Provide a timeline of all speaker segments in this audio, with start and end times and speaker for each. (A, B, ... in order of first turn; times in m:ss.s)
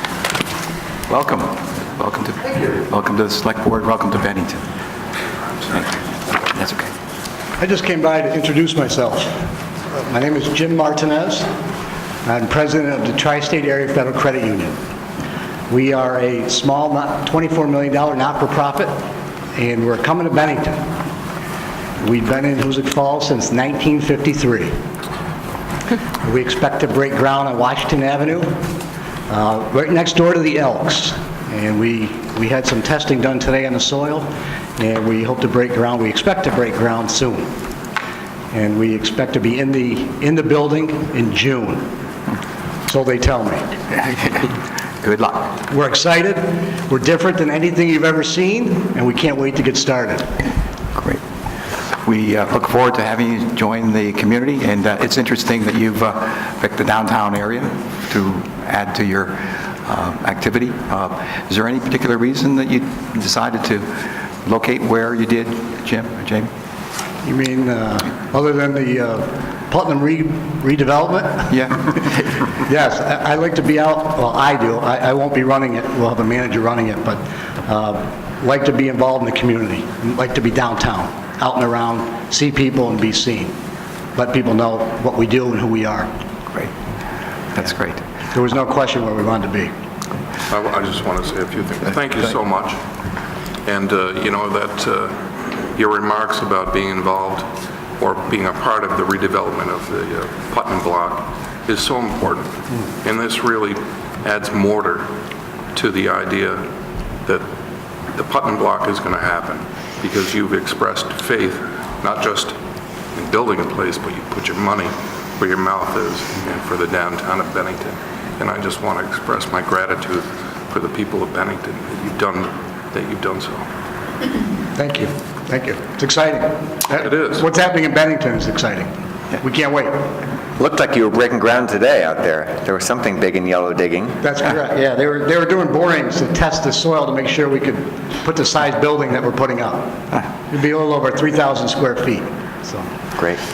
0:01.1-0:04.6 A
0:05.7-0:06.9 A
0:07.6-0:11.5 B
0:12.2-0:14.8 B
0:15.7-0:18.9 B
0:19.6-0:20.9 B
0:22.0-0:24.7 B
0:26.2-0:28.6 B
0:29.3-0:37.5 B
0:38.5-0:41.9 B
0:42.9-0:43.7 B
0:44.0-0:45.5 A
0:45.7-0:50.3 B
0:51.0-0:51.2 A
0:52.0-1:06.5 A
1:07.2-1:11.9 B
1:11.5-1:12.4 A
1:12.6-1:23.5 B
1:24.2-1:26.1 B
1:27.5-1:28.0 A
1:28.3-1:29.7 B
1:30.5-1:32.8 C
1:33.7-1:37.5 C
1:38.0-1:42.5 C
1:43.0-1:45.1 C
1:45.7-1:46.6 C
1:48.1-1:52.6 C
1:53.2-2:03.7 C
2:04.8-2:10.1 B
2:07.0-2:07.4 C
2:10.6-2:14.2 D
2:14.2-2:20.0 B
2:20.5-2:22.9 B